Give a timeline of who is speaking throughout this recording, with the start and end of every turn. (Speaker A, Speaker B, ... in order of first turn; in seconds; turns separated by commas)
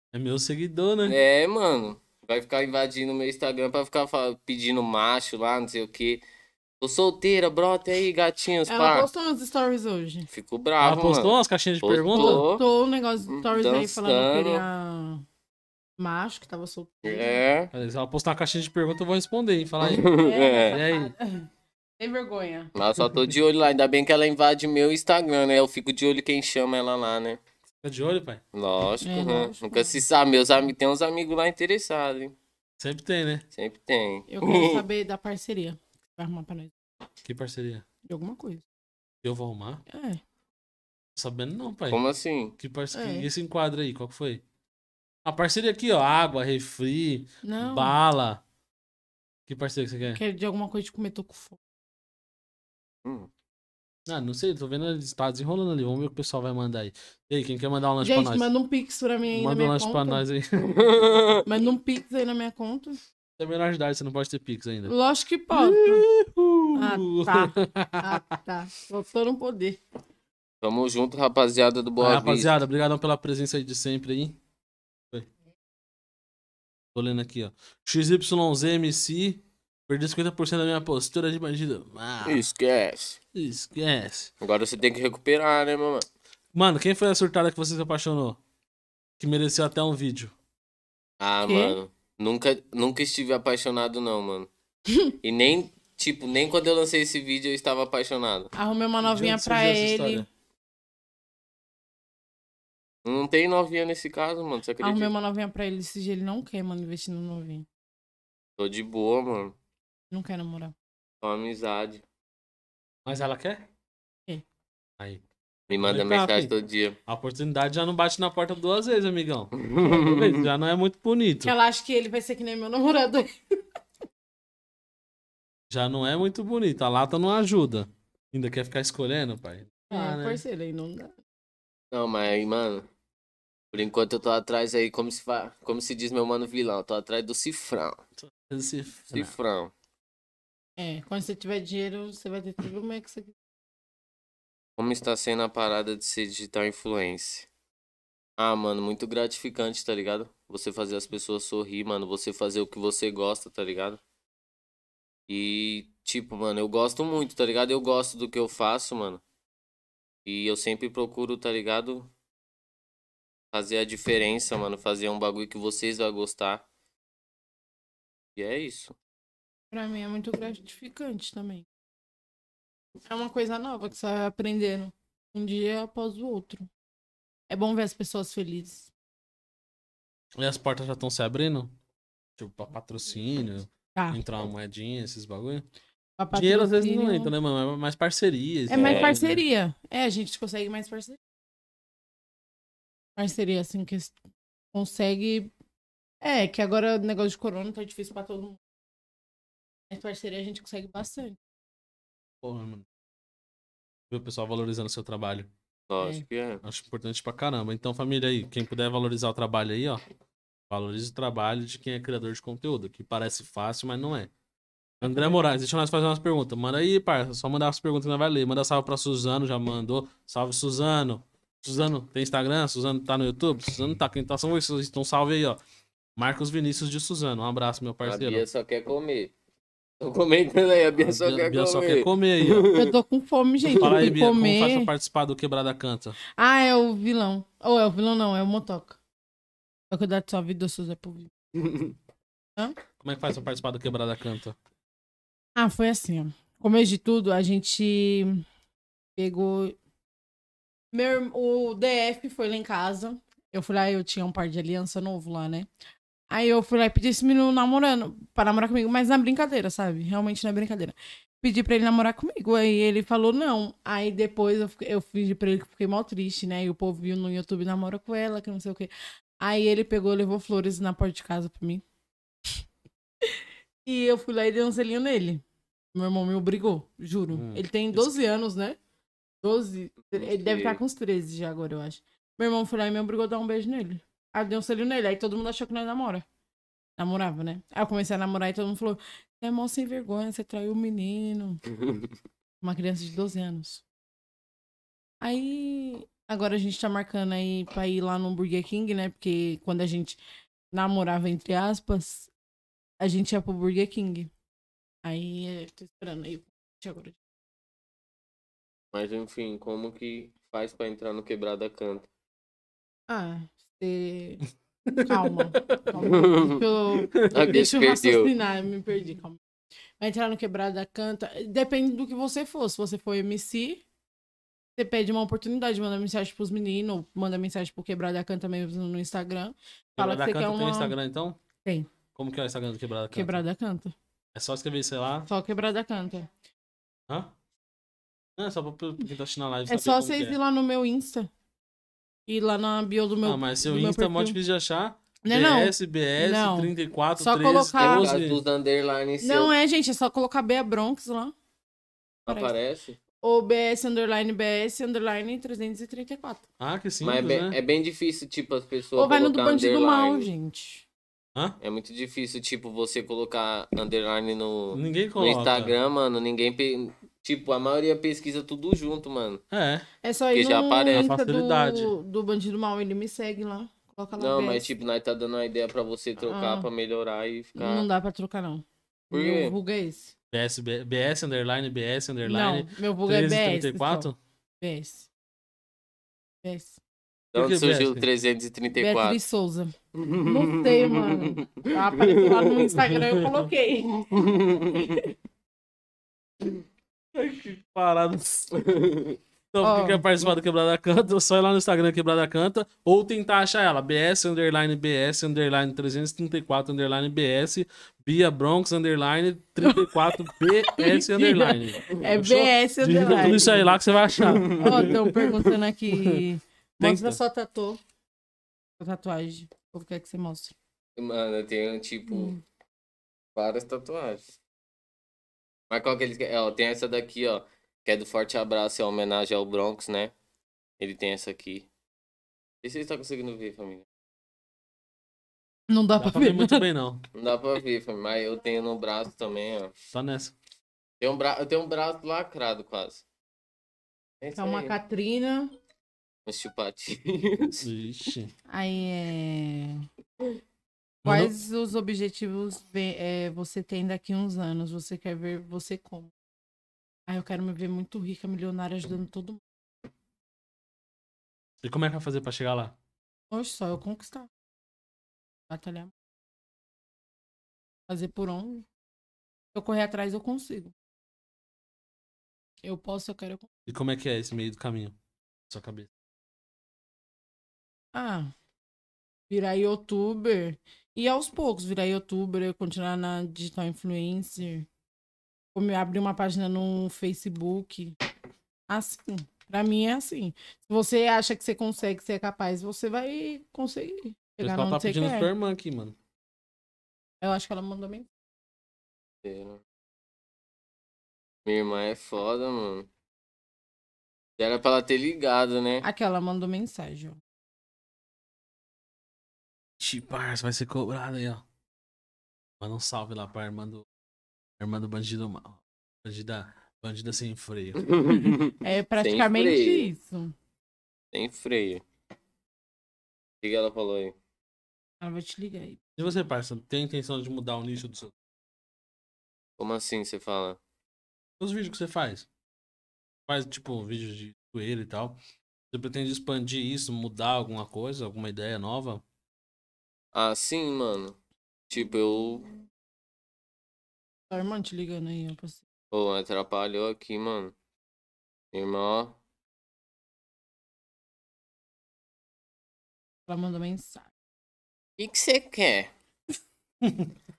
Speaker A: 0.1-1.2, Speaker B: 1.0-6.2, Speaker B: 6.8-9.1, Speaker C: 8.7-10.3, Speaker B: 10.3-12.6, Speaker A: 10.8-12.4, Speaker C: 12.1-15.2, Speaker B: 13.3-14.6, Speaker C: 16.0-17.4, Speaker B: 17.0-17.7, Speaker A: 17.7-20.1, Speaker B: 19.8-20.8, Speaker C: 20.1-22.7, Speaker A: 20.7-21.1, Speaker B: 22.7-27.4, Speaker A: 27.8-28.4, Speaker B: 28.5-32.3, Speaker C: 29.0-30.0, Speaker A: 32.8-33.4, Speaker B: 33.5-34.8, Speaker C: 34.3-36.7, Speaker A: 37.2-37.8, Speaker C: 38.1-38.6, Speaker A: 39.2-39.8, Speaker C: 39.9-40.2, Speaker A: 41.1-42.0, Speaker B: 41.9-42.5, Speaker A: 42.6-44.4, Speaker C: 42.9-43.3, Speaker A: 45.2-48.4, Speaker C: 47.4-48.0, Speaker A: 49.5-50.2, Speaker C: 50.1-51.6, Speaker B: 53.0-53.3, Speaker A: 54.1-58.5, Speaker C: 58.0-60.2, Speaker A: 59.3-60.7, Speaker B: 60.6-61.5, Speaker C: 61.4-63.0, Speaker A: 63.4-64.9, Speaker C: 64.8-66.0, Speaker A: 65.5-68.2, Speaker C: 66.7-69.8, Speaker B: 70.6-72.5, Speaker A: 72.0-74.4, Speaker A: 76.9-82.4, Speaker B: 82.2-83.2, Speaker A: 83.3-84.3, Speaker B: 84.4-86.1, Speaker A: 86.5-88.4, Speaker A: 89.2-90.3, Speaker B: 91.2-94.5, Speaker C: 91.4-91.8, Speaker C: 94.9-95.1, Speaker B: 95.2-98.5, Speaker C: 98.5-100.2, Speaker A: 99.0-100.2, Speaker B: 103.0-105.1, Speaker C: 104.8-107.7, Speaker B: 108.6-109.5, Speaker C: 110.1-110.7, Speaker B: 111.2-112.0, Speaker A: 113.0-113.6, Speaker A: 115.0-116.5, Speaker B: 115.7-117.0, Speaker A: 117.1-121.5, Speaker B: 119.5-120.5, Speaker C: 121.4-123.3, Speaker A: 125.7-130.4, Speaker C: 129.9-131.2, Speaker B: 131.9-132.9, Speaker B: 133.7-138.0, Speaker A: 138.2-139.3, Speaker B: 139.1-139.7, Speaker C: 140.8-143.3, Speaker B: 144.8-147.5, Speaker B: 148.4-154.0, Speaker B: 155.3-159.2, Speaker B: 160.2-162.1, Speaker B: 163.5-166.6, Speaker B: 168.3-168.9, Speaker C: 169.7-171.7, Speaker C: 173.1-176.7, Speaker C: 177.5-178.9, Speaker A: 180.4-181.7, Speaker A: 182.4-185.7, Speaker C: 186.2-187.3, Speaker A: 186.3-189.4, Speaker C: 188.7-191.2, Speaker B: 188.7-189.2, Speaker C: 193.2-194.2, Speaker C: 194.7-195.5, Speaker C: 196.2-198.6, Speaker C: 199.9-201.4, Speaker A: 202.4-202.8, Speaker A: 204.1-205.5, Speaker B: 205.9-206.6, Speaker A: 206.6-210.0, Speaker A: 210.7-214.3, Speaker A: 215.0-225.6, Speaker A: 226.2-228.4, Speaker B: 228.0-229.3, Speaker B: 230.0-232.9, Speaker A: 231.0-232.7, Speaker C: 232.7-234.9, Speaker A: 233.7-236.2, Speaker B: 233.8-234.1, Speaker C: 236.3-239.0, Speaker C: 239.9-241.3, Speaker B: 241.6-241.9, Speaker A: 243.0-244.6, Speaker C: 245.6-248.4, Speaker C: 249.2-249.8, Speaker C: 250.9-255.7, Speaker C: 256.3-271.8, Speaker C: 273.2-275.4, Speaker C: 275.9-278.8, Speaker A: 277.3-278.1, Speaker C: 279.4-286.2, Speaker B: 280.1-280.8, Speaker C: 287.0-291.6, Speaker B: 291.8-292.1, Speaker C: 292.6-293.8, Speaker C: 295.2-300.2, Speaker C: 300.7-302.3, Speaker C: 303.0-304.3, Speaker C: 305.0-307.2, Speaker B: 308.9-312.1, Speaker C: 313.1-314.4, Speaker A: 314.9-315.8, Speaker C: 315.0-319.4, Speaker B: 316.1-316.6, Speaker A: 317.1-317.5, Speaker B: 317.3-318.3, Speaker C: 320.0-323.8, Speaker C: 324.8-330.9, Speaker A: 330.0-331.4, Speaker A: 332.1-333.4, Speaker C: 333.1-333.9, Speaker A: 334.3-335.3, Speaker C: 335.3-336.3, Speaker A: 338.4-340.4, Speaker C: 339.7-341.3, Speaker C: 342.3-344.4, Speaker A: 343.2-348.4, Speaker C: 345.2-348.1, Speaker B: 347.8-349.5, Speaker C: 349.2-351.3, Speaker B: 352.2-353.0, Speaker C: 353.2-356.4, Speaker A: 356.6-357.6, Speaker B: 357.0-360.3, Speaker C: 358.9-360.8, Speaker B: 361.6-369.4, Speaker A: 364.7-365.7, Speaker A: 369.5-369.9, Speaker C: 370.0-374.7, Speaker B: 370.3-371.1, Speaker A: 370.9-371.9, Speaker B: 374.2-377.9, Speaker C: 376.3-376.7, Speaker C: 377.6-380.1, Speaker B: 379.1-379.5, Speaker A: 380.3-384.1, Speaker C: 382.2-385.1, Speaker C: 386.4-386.8, Speaker B: 387.3-389.2, Speaker A: 387.3-388.1, Speaker C: 388.7-395.1, Speaker B: 389.9-392.7, Speaker B: 394.1-395.0, Speaker A: 397.1-398.6, Speaker B: 398.5-399.2, Speaker A: 399.5-416.2, Speaker C: 399.6-400.1, Speaker C: 409.6-413.7, Speaker B: 414.1-415.0, Speaker C: 414.5-417.8, Speaker A: 416.8-417.2, Speaker C: 418.8-420.5, Speaker B: 420.9-422.3, Speaker C: 422.1-422.4, Speaker B: 423.3-424.3, Speaker B: 425.7-430.1, Speaker B: 430.8-431.7, Speaker B: 432.6-433.9, Speaker C: 435.7-436.6, Speaker A: 436.0-437.1, Speaker B: 437.1-439.7, Speaker A: 439.9-440.4, Speaker B: 441.0-443.0, Speaker B: 444.2-444.8, Speaker C: 444.3-445.5, Speaker B: 446.2-447.7, Speaker A: 447.6-448.3, Speaker C: 448.5-449.8, Speaker A: 451.0-451.3, Speaker C: 451.0-456.1, Speaker C: 457.1-459.4, Speaker A: 461.6-462.8, Speaker C: 463.3-464.3, Speaker C: 465.5-465.9, Speaker C: 467.9-468.6, Speaker C: 469.5-470.7, Speaker C: 472.6-473.5, Speaker A: 473.7-474.9, Speaker A: 475.5-475.9, Speaker C: 477.9-478.3, Speaker C: 479.3-484.7, Speaker C: 485.5-487.9, Speaker C: 488.7-495.3, Speaker A: 494.4-495.9, Speaker C: 497.2-498.1, Speaker B: 499.2-499.6, Speaker B: 501.4-502.9, Speaker B: 504.4-505.9, Speaker C: 505.8-507.2, Speaker A: 509.8-511.4, Speaker A: 512.6-513.8, Speaker A: 514.6-518.0, Speaker B: 517.9-519.9, Speaker C: 518.6-520.3, Speaker B: 521.1-521.8, Speaker B: 523.4-524.1, Speaker C: 525.0-525.8, Speaker A: 526.0-528.1, Speaker B: 529.6-530.6, Speaker A: 531.4-532.3, Speaker A: 533.3-535.2, Speaker A: 535.7-539.0, Speaker B: 540.1-541.2, Speaker B: 541.7-542.5, Speaker C: 544.3-545.6, Speaker B: 545.9-547.5, Speaker B: 548.5-549.2, Speaker C: 553.3-554.1, Speaker B: 555.0-555.9